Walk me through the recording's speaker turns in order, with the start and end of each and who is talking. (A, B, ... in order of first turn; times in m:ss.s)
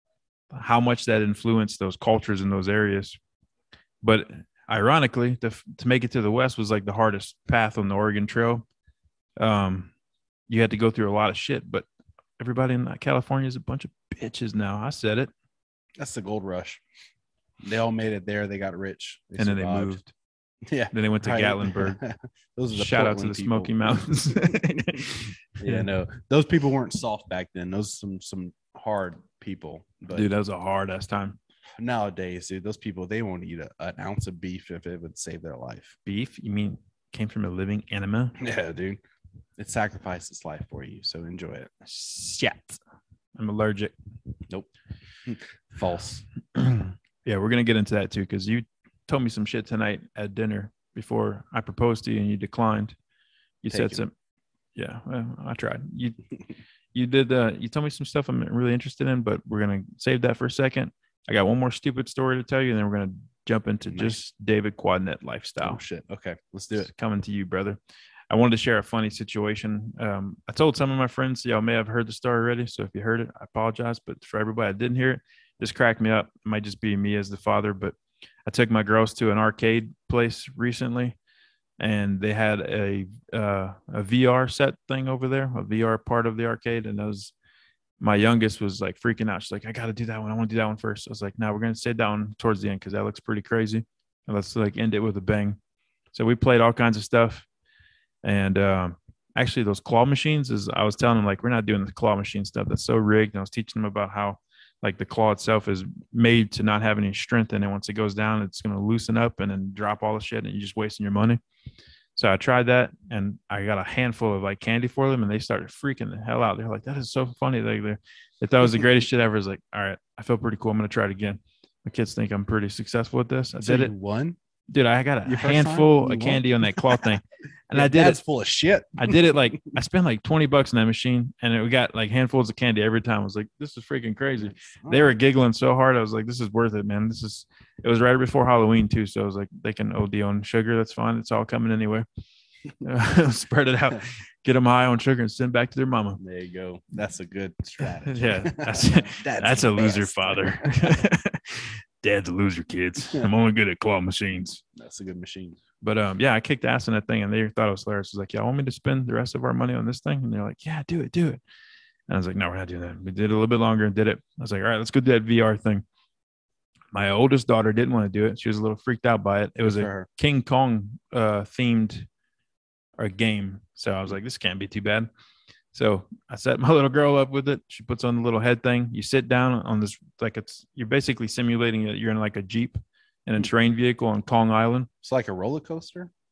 0:00.5-0:03.2 A
0:04.0-0:08.6 A
0:09.4-0:09.9 A
0:10.5-0:11.9 A
0:12.4-0:15.3 A
0:16.0-0:16.8 B
0:17.6-0:20.0 B
0:19.4-0:20.1 A
0:20.6-0:25.1 B
0:20.9-0:22.0 A
0:22.7-0:25.9 A
0:25.6-0:30.3 B
0:30.1-0:31.4 A
0:31.8-0:36.0 B
0:36.1-0:38.4 A
0:38.4-0:39.0 B
0:39.6-0:41.7 B
0:41.8-0:42.8 A
0:43.4-0:43.9 A
0:45.2-0:46.2 B
0:46.6-0:53.0 A
0:53.6-0:54.1 A
0:53.7-0:54.0 B
0:54.8-0:56.2 A
0:56.9-1:05.8 A
1:03.9-1:04.2 B
1:05.6-1:06.9 B
1:06.7-1:07.8 A
1:08.3-1:21.2 A
1:21.8-1:27.3 A
1:28.0-1:35.6 A
1:36.1-1:37.4 A
1:38.2-1:51.4 A
1:52.2-2:03.9 A
2:03.6-2:04.4 B
2:04.7-2:08.2 A
2:05.3-2:07.1 B
2:07.7-2:09.6 B
2:09.0-2:22.1 A
2:14.4-2:15.1 B
2:22.8-2:26.2 A
2:26.2-2:30.9 B
2:28.0-2:34.6 A
2:34.7-2:35.6 B
2:35.8-2:41.4 A
2:42.1-2:45.8 A
2:46.9-2:52.1 A
2:49.6-2:50.1 B
2:53.0-2:55.1 A
2:55.7-3:04.9 A
3:05.0-3:06.1 B